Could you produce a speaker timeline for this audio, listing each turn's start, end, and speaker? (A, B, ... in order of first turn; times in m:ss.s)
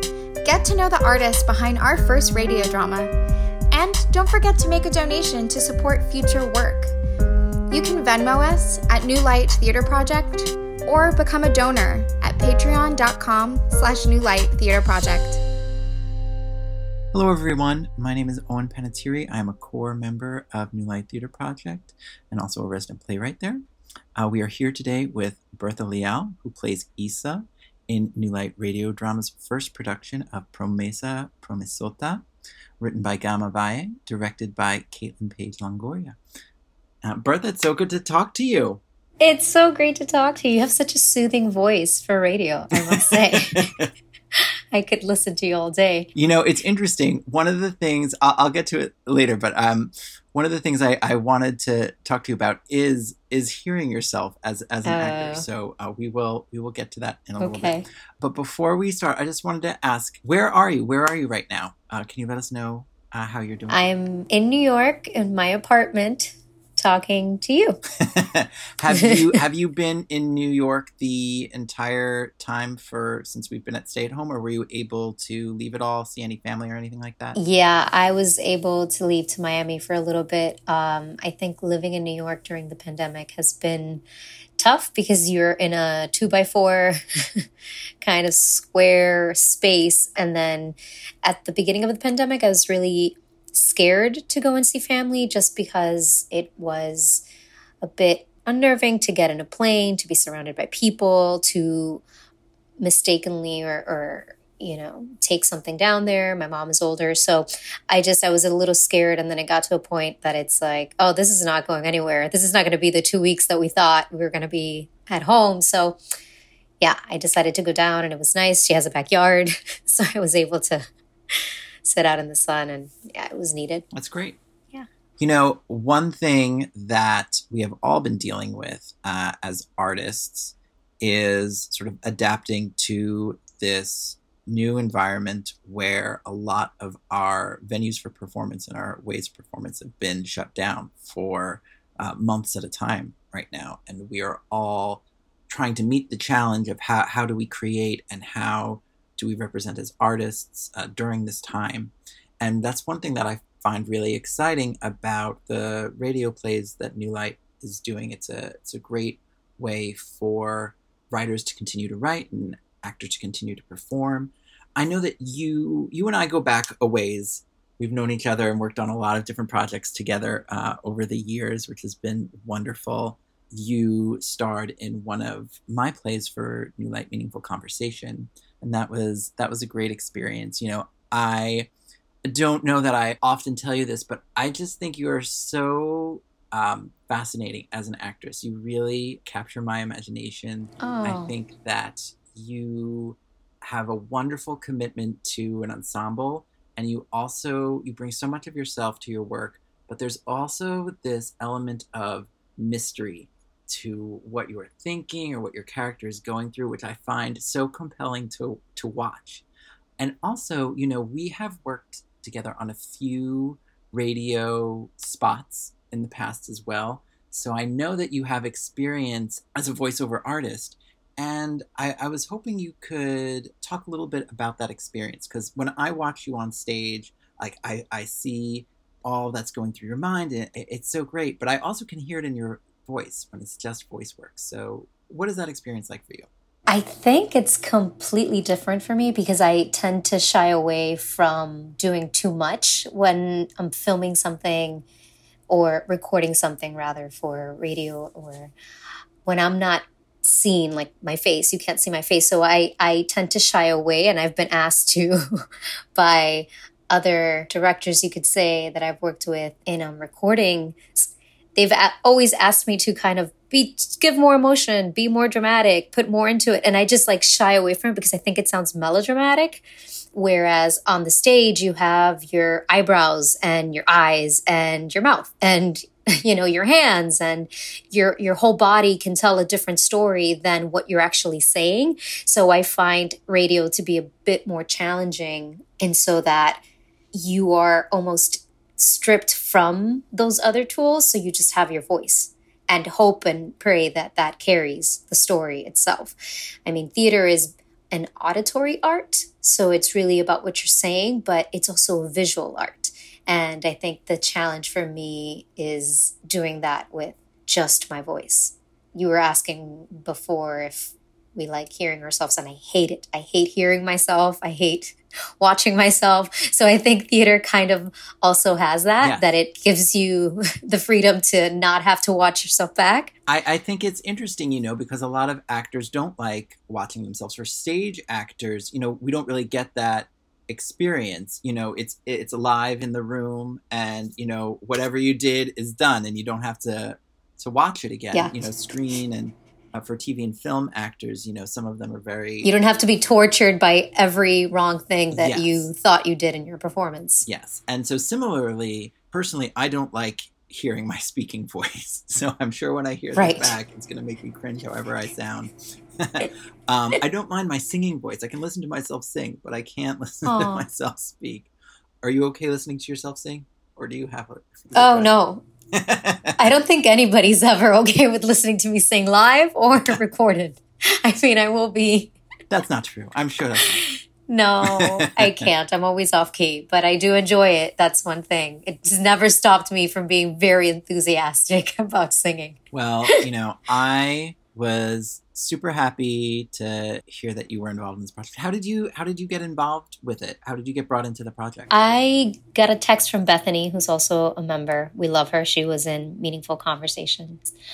0:00.4-0:03.1 A
0:03.7-0:06.9 A
0:07.7-0:15.4 A
0:17.1-0:23.6 B
0:24.2-0:32.2 B
0:32.8-0:36.2 B
0:37.0-0:38.8 B
0:39.2-0:43.7 C
0:42.7-0:43.9 B
0:44.7-0:46.1 C
0:46.2-1:03.8 B
0:54.8-0:55.5 C
0:57.4-0:57.8 C
1:03.7-1:07.8 C
1:08.0-1:17.4 B
1:08.9-1:09.3 C
1:17.4-1:24.0 C
1:24.6-1:27.5 C
1:28.0-1:37.2 C
1:37.8-1:42.0 C
1:42.8-1:56.0 C
1:56.8-2:03.8 C
2:03.9-2:04.4 B
2:05.2-3:01.7 B
3:02.2-3:29.4 B
3:10.8-3:11.3 C
3:30.0-3:56.3 B
3:56.7-4:04.9 C
4:05.5-4:08.5 C
4:09.2-4:15.2 C
4:16.0-4:46.6 C
4:47.1-5:23.1 C
5:19.0-5:19.3 B
5:23.3-5:42.5 B
5:38.1-5:38.4 C
5:42.4-5:47.3 C
5:45.1-5:45.7 B
5:47.3-6:01.5 B
5:53.2-5:53.6 C
6:00.3-6:00.6 C
6:02.0-6:05.1 B
6:04.8-6:05.4 C
6:05.8-6:06.5 B
6:06.4-6:12.1 C
6:12.5-6:13.8 B
6:13.7-6:23.3 C
6:14.6-6:15.5 B
6:22.7-6:31.7 B
6:31.7-6:37.5 C